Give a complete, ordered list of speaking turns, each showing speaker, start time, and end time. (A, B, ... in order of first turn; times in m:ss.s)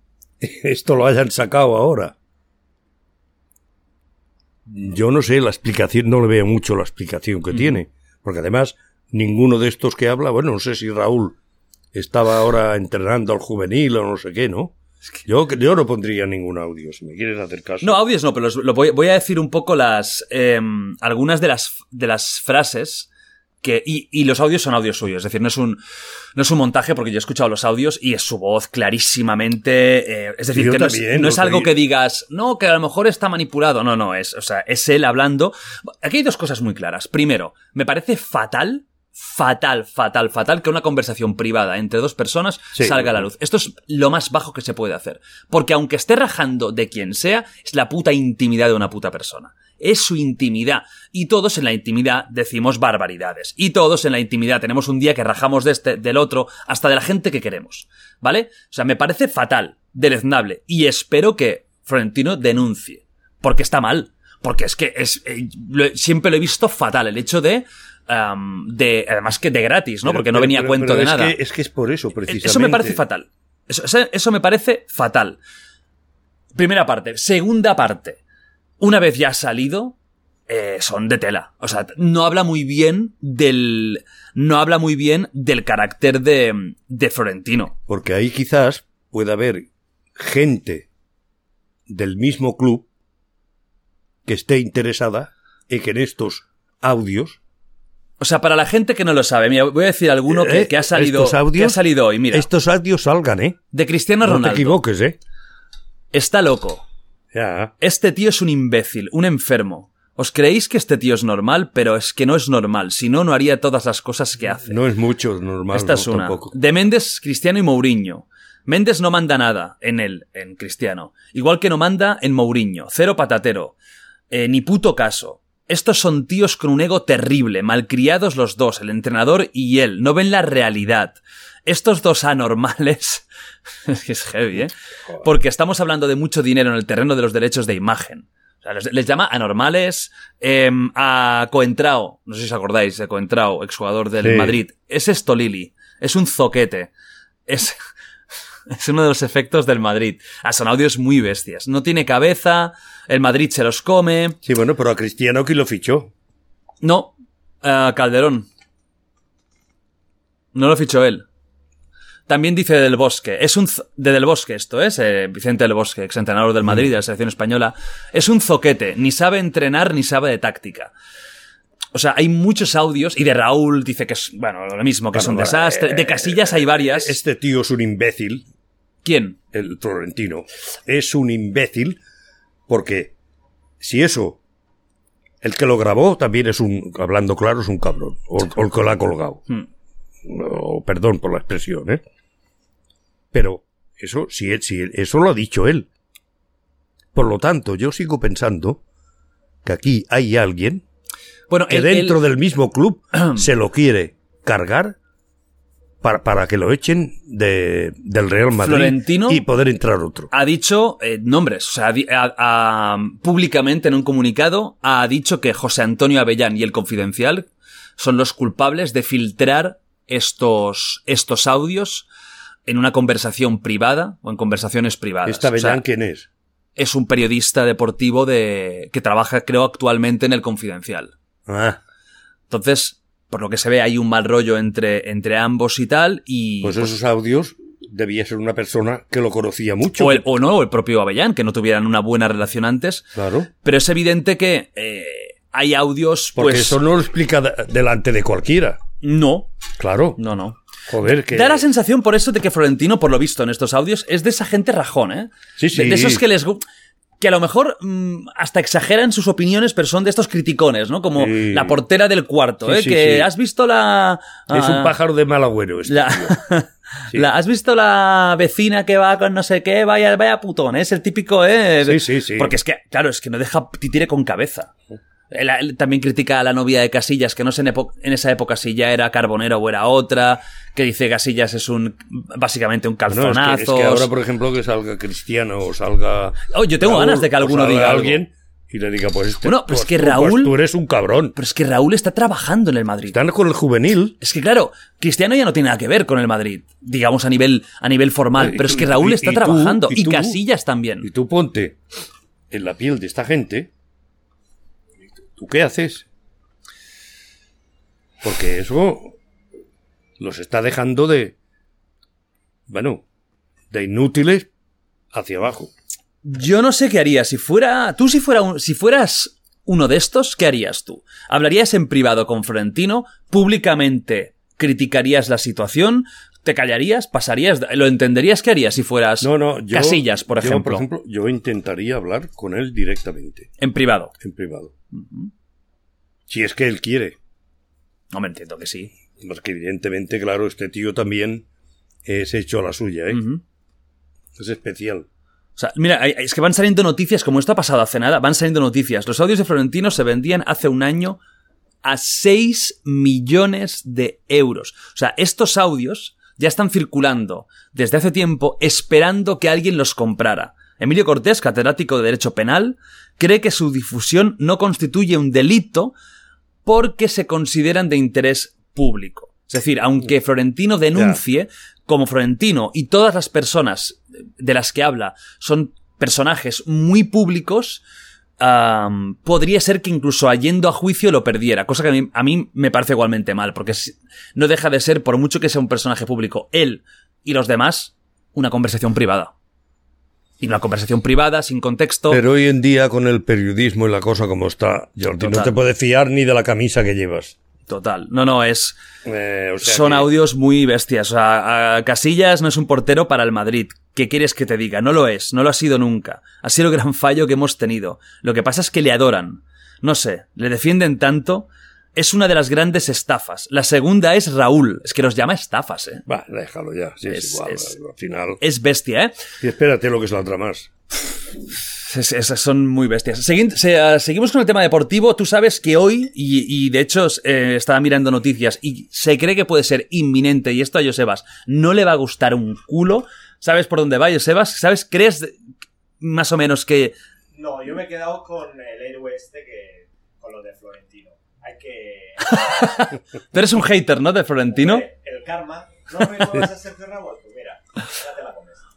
0:00.4-0:02.2 A
0:04.7-0:11.4 A
0:11.9-0:18.0 A
0:17.8-0:23.1 B
0:23.6-0:25.8 B
0:26.4-1:11.4 B
0:30.5-0:31.8 A
0:42.8-0:43.3 A
1:10.0-1:13.0 A
1:12.3-1:15.4 B
1:16.6-1:18.2 B
1:18.8-1:20.0 B
1:20.5-1:27.8 B
1:27.9-1:30.9 A
1:31.9-1:32.9 A
1:34.2-1:37.4 A
1:38.2-1:42.5 B
1:40.3-1:41.8 A
1:42.3-1:43.6 A
1:43.7-1:44.8 B
1:44.2-1:45.2 A
1:46.1-1:46.8 B
1:47.3-1:47.7 A
1:47.8-1:54.7 B
1:54.6-1:56.5 A
1:55.7-2:03.8 B
2:04.3-2:13.2 B
2:13.9-2:26.9 B
2:24.2-2:24.6 A
2:27.5-2:27.8 B
2:28.7-2:34.4 B
2:34.4-2:36.1 A
2:36.8-2:38.5 B
2:40.5-2:41.2 B
2:42.3-2:50.9 B
2:51.9-2:57.2 B
2:55.1-2:58.4 A
2:59.0-2:59.4 B
2:59.5-3:02.0 A
3:02.7-3:03.1 A
3:03.8-3:04.4 A
3:05.4-3:09.4 A
3:10.2-3:12.0 A
3:13.3-3:15.9 A
3:17.1-3:18.8 A
3:19.6-3:20.8 A
3:21.5-3:22.2 B
3:21.7-3:25.0 A
3:26.0-3:30.3 A
3:28.6-3:29.4 B
3:30.3-3:42.1 B
3:42.7-3:45.8 B
3:45.3-3:46.3 A
3:46.8-3:51.1 B
3:51.5-3:51.8 A
3:52.5-3:57.0 B
3:56.6-4:00.3 A
4:00.0-4:06.8 B
4:03.2-4:03.5 A
4:06.4-4:08.8 A
4:09.0-4:09.5 B
4:09.8-4:10.2 A
4:10.2-4:10.6 B
4:10.9-4:11.6 A
4:11.3-4:16.6 B
4:15.6-4:16.2 A
4:17.2-4:24.9 B
4:21.2-4:21.8 A
4:22.6-4:23.3 A
4:24.5-4:26.4 A
4:25.9-4:34.7 B
4:31.9-4:32.5 A
4:35.3-4:44.1 B
4:43.1-4:51.4 A
4:46.5-4:48.2 B
4:49.4-4:50.6 B
4:51.4-4:53.2 B
4:53.1-4:54.2 A
4:54.2-5:01.1 B
4:58.4-5:00.4 A
5:01.0-5:01.8 A
5:02.5-5:03.7 A
5:05.4-5:06.1 A
5:08.2-5:09.2 A
5:10.2-5:11.4 A
5:12.7-5:13.0 A
5:13.7-5:14.5 A
5:15.1-5:15.7 A
5:16.2-5:30.9 B
5:29.2-5:33.5 A
5:33.6-5:34.1 B
5:34.2-5:34.7 A
5:34.9-5:35.3 B
5:36.3-5:37.2 A
5:38.1-5:38.9 B
5:39.1-5:41.5 A
5:42.0-5:43.2 A
5:43.1-5:43.4 B
5:44.4-5:45.1 A
5:45.6-5:51.2 B
5:51.8-6:06.0 B
6:06.6-6:17.8 B
6:11.0-6:11.2 A
6:18.4-6:29.3 B
6:30.4-6:32.2 B
6:32.1-6:37.4 A
6:35.2-6:35.5 B
6:37.7-6:38.8 B
6:39.0-6:40.1 A
6:39.6-6:56.0 B
6:56.1-6:58.4 A
6:57.1-6:57.8 B
6:58.4-6:59.2 B
6:59.4-7:01.2 A
7:01.8-7:15.4 B
7:16.0-7:16.9 B
7:17.3-7:22.8 C
7:22.3-7:24.9 B
7:24.6-7:28.6 C